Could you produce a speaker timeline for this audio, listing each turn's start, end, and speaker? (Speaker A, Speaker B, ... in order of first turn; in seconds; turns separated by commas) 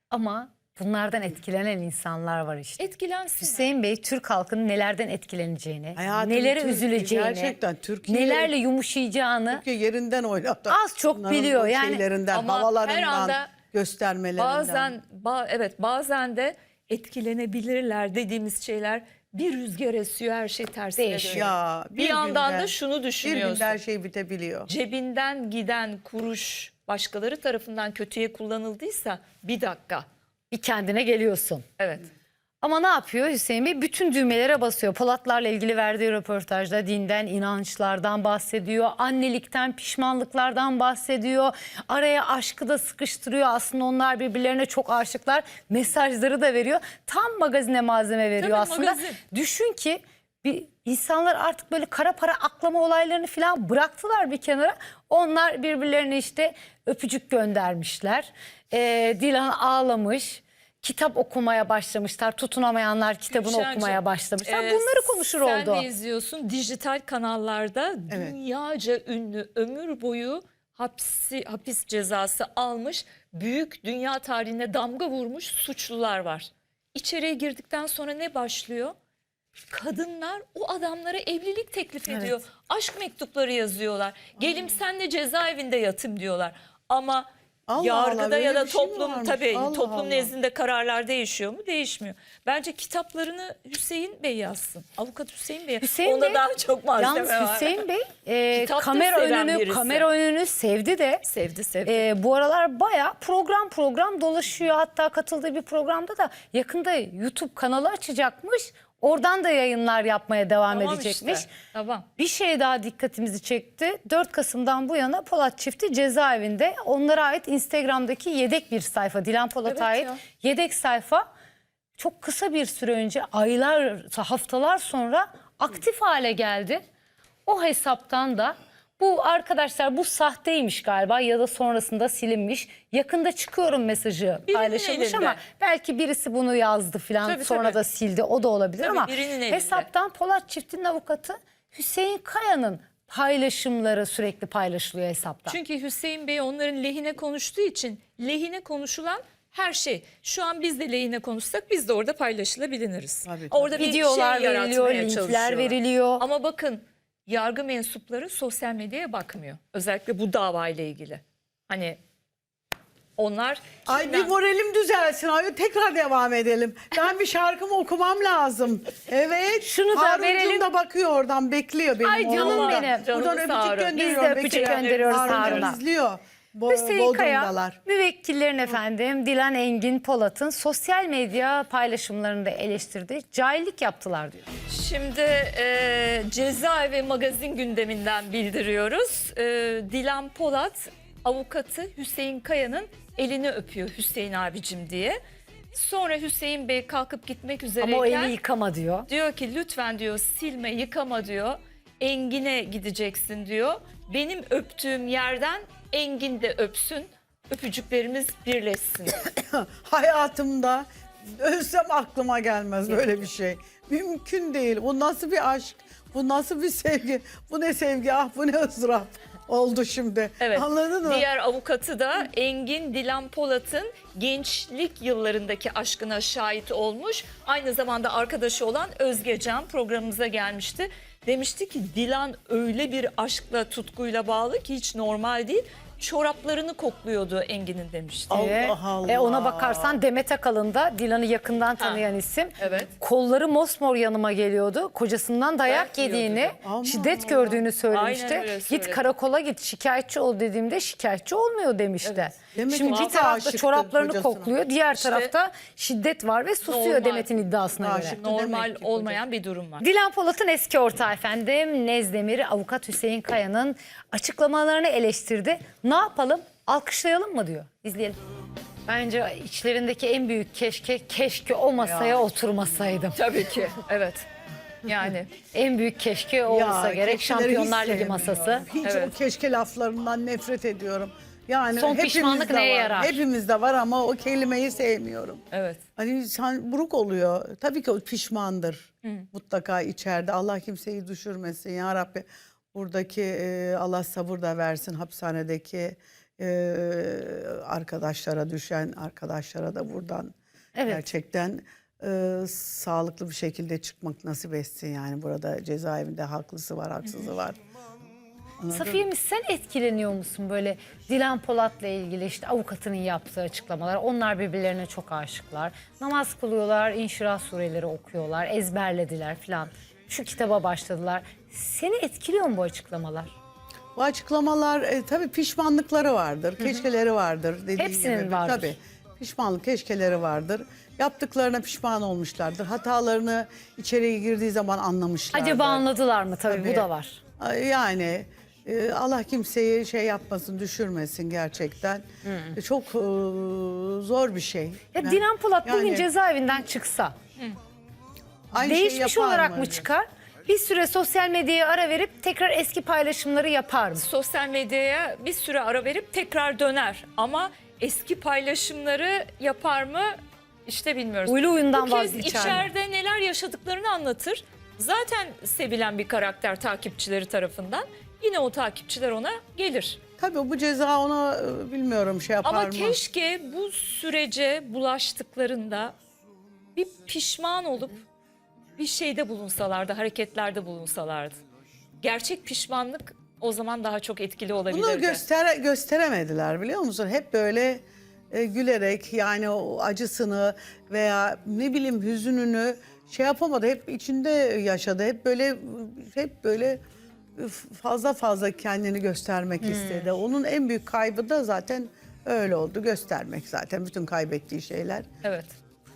Speaker A: 0.1-9.6, Speaker B: 2.8-3.7, Speaker C: 6.0-8.5, Speaker C: 9.5-15.0, Speaker A: 10.7-12.1, Speaker B: 12.3-13.5, Speaker B: 14.4-23.8, Speaker A: 21.0-21.5, Speaker C: 21.3-24.7, Speaker B: 24.7-30.1, Speaker A: 30.5-31.6, Speaker B: 31.8-32.1, Speaker A: 32.6-65.9, Speaker B: 48.4-49.2, Speaker B: 63.3-79.0, Speaker C: 68.1-68.4, Speaker B: 79.7-97.8, Speaker C: 82.1-82.4, Speaker C: 84.4-84.6, Speaker C: 87.7-90.3, Speaker A: 95.8-96.5, Speaker A: 97.0-101.2, Speaker B: 98.5-100.1, Speaker B: 101.2-102.1, Speaker A: 101.9-111.5, Speaker B: 110.7-112.1, Speaker A: 112.2-121.3, Speaker B: 119.7-120.2, Speaker A: 122.0-126.8, Speaker A: 127.5-145.6, Speaker B: 134.5-135.4, Speaker B: 137.2-137.8, Speaker B: 138.8-139.9, Speaker B: 145.5-162.0, Speaker C: 153.2-153.9, Speaker A: 153.8-156.3, Speaker B: 163.2-164.3, Speaker C: 163.9-177.8, Speaker A: 169.7-170.7, Speaker A: 172.0-173.1, Speaker B: 172.3-175.8, Speaker A: 173.9-175.8, Speaker A: 176.7-184.5, Speaker B: 184.7-195.2, Speaker B: 195.7-198.4, Speaker A: 197.8-199.1, Speaker B: 199.1-209.2, Speaker C: 209.3-221.3, Speaker B: 212.9-213.3, Speaker B: 220.4-238.4, Speaker C: 238.3-240.0, Speaker A: 238.3-258.2, Speaker B: 242.6-242.9, Speaker B: 245.7-246.6, Speaker C: 246.6-247.6, Speaker B: 247.9-249.0, Speaker B: 252.0-253.3, Speaker C: 252.6-254.5, Speaker B: 254.9-255.3, Speaker B: 256.6-257.3, Speaker C: 257.8-259.2, Speaker B: 258.2-259.9, Speaker A: 259.8-268.2, Speaker A: 268.9-273.2, Speaker C: 271.8-272.8, Speaker B: 273.1-274.3, Speaker B: 274.9-275.3, Speaker A: 275.5-278.7, Speaker C: 276.5-285.4, Speaker B: 278.8-279.1, Speaker A: 281.8-283.2, Speaker B: 285.5-285.8, Speaker C: 286.0-300.3, Speaker A: 300.8-301.1, Speaker C: 300.9-307.6, Speaker B: 307.1-307.3, Speaker C: 308.6-309.0, Speaker A: 308.7-323.3, Speaker C: 324.0-335.9, Speaker A: 326.6-326.9, Speaker A: 327.8-328.7, Speaker A: 335.3-337.2, Speaker C: 336.5-336.9, Speaker C: 337.4-342.0, Speaker A: 342.2-342.6, Speaker C: 342.6-346.1, Speaker A: 344.9-347.1, Speaker C: 348.5-349.9, Speaker A: 348.5-354.1, Speaker B: 354.0-370.0, Speaker A: 361.3-362.7, Speaker C: 370.2-373.0, Speaker B: 372.4-376.0, Speaker B: 376.8-378.0, Speaker B: 378.8-381.4, Speaker B: 382.0-385.2, Speaker C: 384.7-396.8, Speaker C: 397.4-405.1, Speaker A: 399.6-400.1, Speaker B: 405.2-405.6